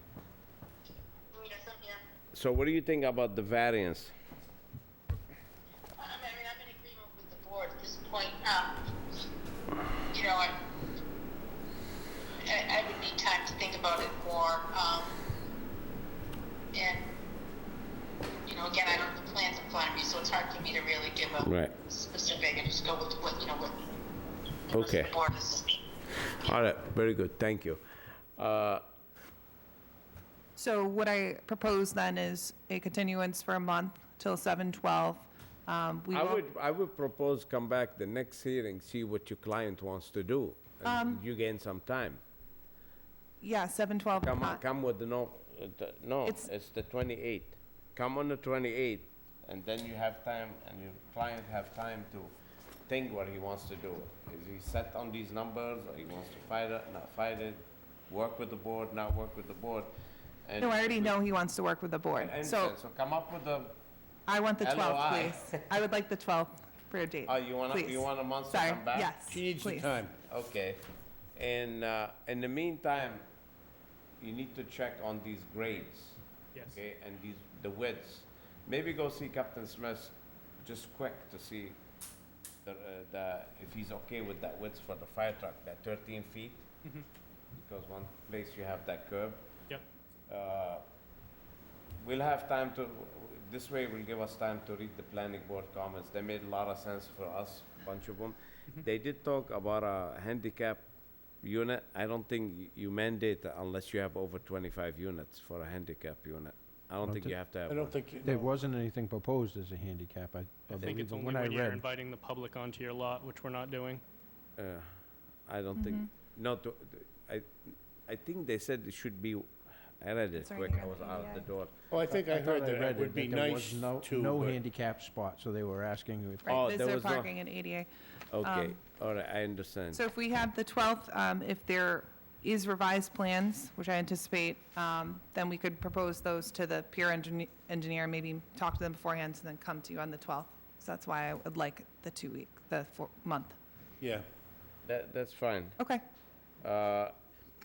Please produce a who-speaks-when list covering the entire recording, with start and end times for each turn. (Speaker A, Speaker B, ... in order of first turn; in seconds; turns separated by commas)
Speaker A: 1.4-2.0, Speaker B: 2.3-4.1, Speaker A: 6.0-8.7, Speaker A: 10.2-10.5, Speaker A: 12.5-15.1, Speaker A: 18.5-21.3, Speaker B: 21.4-21.8, Speaker A: 21.9-23.7, Speaker B: 24.7-25.1, Speaker A: 25.2-25.6, Speaker B: 26.4-27.8, Speaker B: 28.4-28.8, Speaker C: 30.6-36.4, Speaker B: 36.1-42.2, Speaker C: 40.8-41.2, Speaker C: 43.4-44.6, Speaker B: 44.2-52.3, Speaker B: 52.9-59.9, Speaker B: 60.5-61.1, Speaker C: 60.6-62.8, Speaker B: 62.1-63.8, Speaker C: 64.3-69.9, Speaker B: 64.6-65.6, Speaker B: 67.2-69.1, Speaker D: 69.3-70.2, Speaker B: 70.3-70.8, Speaker B: 71.3-73.2, Speaker B: 74.2-76.2, Speaker B: 76.7-81.8, Speaker B: 82.6-86.7, Speaker B: 87.6-89.4, Speaker B: 90.3-90.8, Speaker B: 92.0-100.9, Speaker B: 101.4-108.0, Speaker E: 107.1-107.3, Speaker D: 107.7-108.5, Speaker E: 108.2-111.8, Speaker F: 110.8-114.0, Speaker B: 114.6-114.9, Speaker B: 115.5-121.7, Speaker C: 115.8-116.0, Speaker C: 120.4-121.5, Speaker D: 121.9-124.6, Speaker E: 122.1-126.6, Speaker C: 126.4-127.9, Speaker B: 126.5-127.4, Speaker B: 128.3-130.0, Speaker C: 128.4-128.8, Speaker C: 129.9-143.6, Speaker D: 144.0-144.3, Speaker B: 144.8-145.8, Speaker B: 146.6-147.1